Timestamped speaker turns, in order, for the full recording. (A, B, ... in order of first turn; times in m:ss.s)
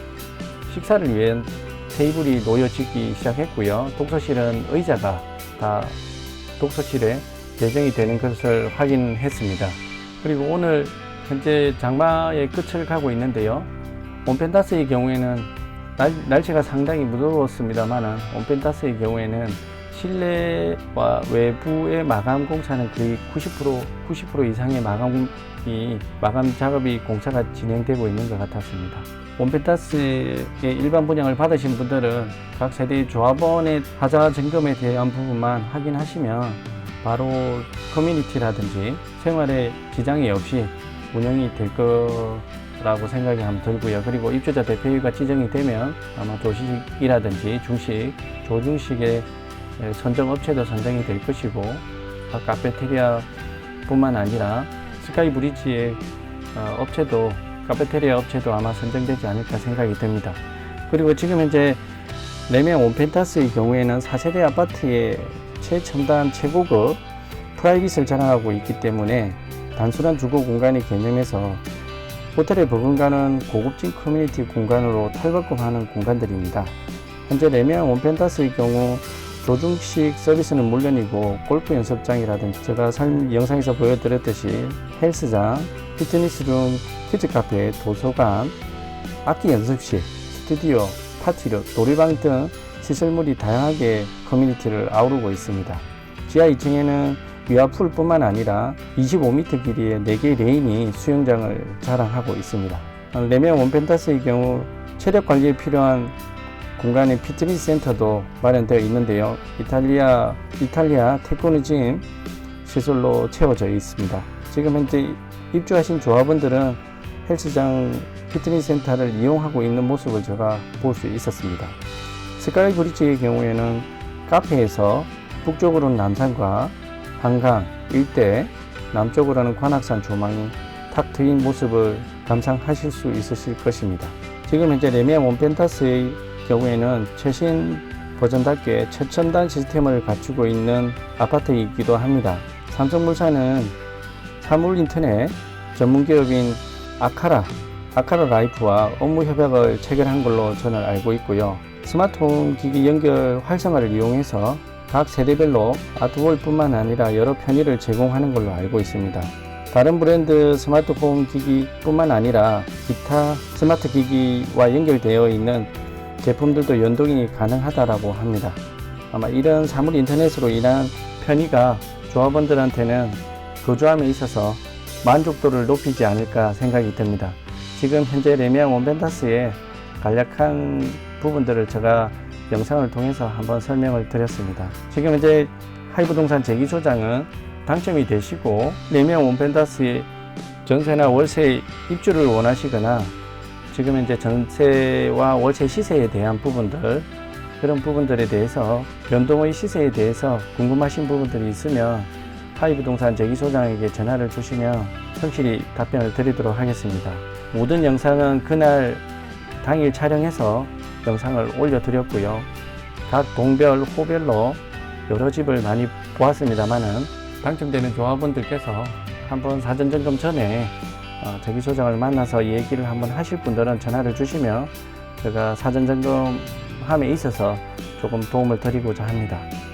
0:00.7-0:06.0 A
0:06.6-0:13.7 A
0:14.2-0:49.3 A
0:49.8-0:53.3 A
0:53.9-0:56.0 A
0:56.5-1:01.8 A
1:02.5-1:07.0 A
1:07.6-1:11.6 A
1:12.4-1:16.8 A
1:17.3-1:28.6 A
1:29.2-1:46.1 A
1:46.8-1:52.0 A
1:52.6-2:01.8 A
2:02.4-2:23.8 A
2:24.4-2:45.7 A
2:46.2-2:48.6 A
2:49.1-3:10.1 A
3:10.6-3:13.1 A
3:13.7-3:17.1 A
3:17.6-3:29.0 A
3:29.6-3:32.5 A
3:33.1-3:49.5 A